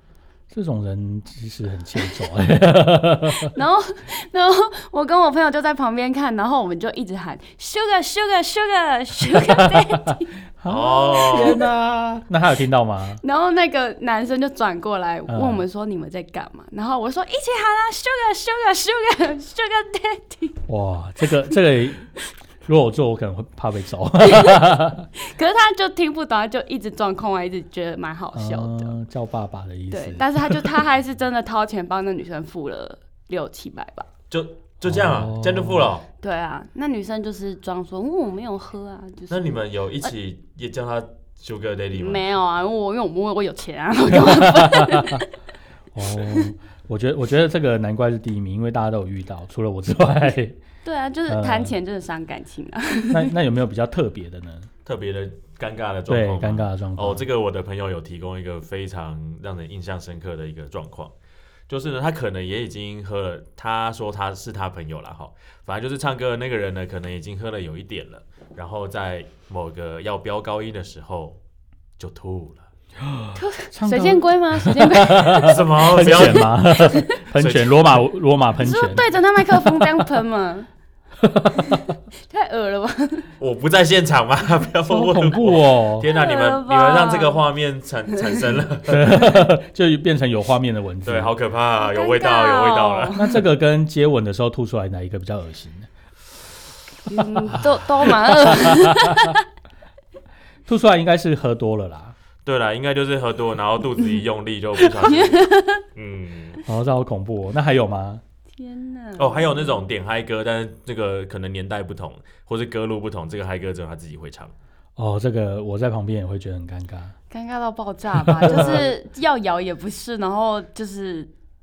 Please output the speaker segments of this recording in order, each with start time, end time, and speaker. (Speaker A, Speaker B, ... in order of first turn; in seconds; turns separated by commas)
Speaker A: 0.5-3.5, Speaker B: 3.5-10.3, Speaker A: 9.3-10.0, Speaker A: 10.6-13.2, Speaker C: 10.7-11.6, Speaker B: 13.2-20.6, Speaker A: 15.3-15.7, Speaker A: 20.7-22.1, Speaker A: 22.6-25.1, Speaker B: 24.2-29.0, Speaker A: 28.3-30.8, Speaker B: 29.9-34.1, Speaker C: 34.3-36.0, Speaker A: 34.9-35.9, Speaker B: 36.2-40.1, Speaker C: 39.3-42.3, Speaker B: 41.9-45.3, Speaker A: 44.1-45.2, Speaker A: 45.9-50.6, Speaker B: 46.2-46.5, Speaker B: 50.8-53.3, Speaker A: 51.3-51.8, Speaker A: 53.1-54.7, Speaker C: 54.9-61.1, Speaker A: 56.1-57.3, Speaker C: 61.7-71.4, Speaker C: 72.0-72.7, Speaker A: 73.0-80.0, Speaker B: 73.3-75.6, Speaker C: 75.4-76.7, Speaker B: 76.3-77.2, Speaker C: 77.2-78.1, Speaker B: 78.6-80.7, Speaker A: 81.2-81.8, Speaker B: 81.6-83.3, Speaker C: 83.4-89.3, Speaker A: 84.9-86.1, Speaker B: 86.1-87.4, Speaker A: 88.8-91.3, Speaker C: 91.0-93.3, Speaker B: 91.8-93.4, Speaker A: 93.1-95.9, Speaker B: 97.1-99.4, Speaker A: 97.6-98.9, Speaker A: 100.7-102.2, Speaker C: 102.5-105.4, Speaker B: 105.0-105.8, Speaker C: 106.0-106.6, Speaker A: 106.7-108.2, Speaker B: 108.5-109.7, Speaker C: 109.2-114.5, Speaker A: 115.0-117.1, Speaker B: 117.3-121.3, Speaker A: 118.3-118.8, Speaker C: 118.5-118.9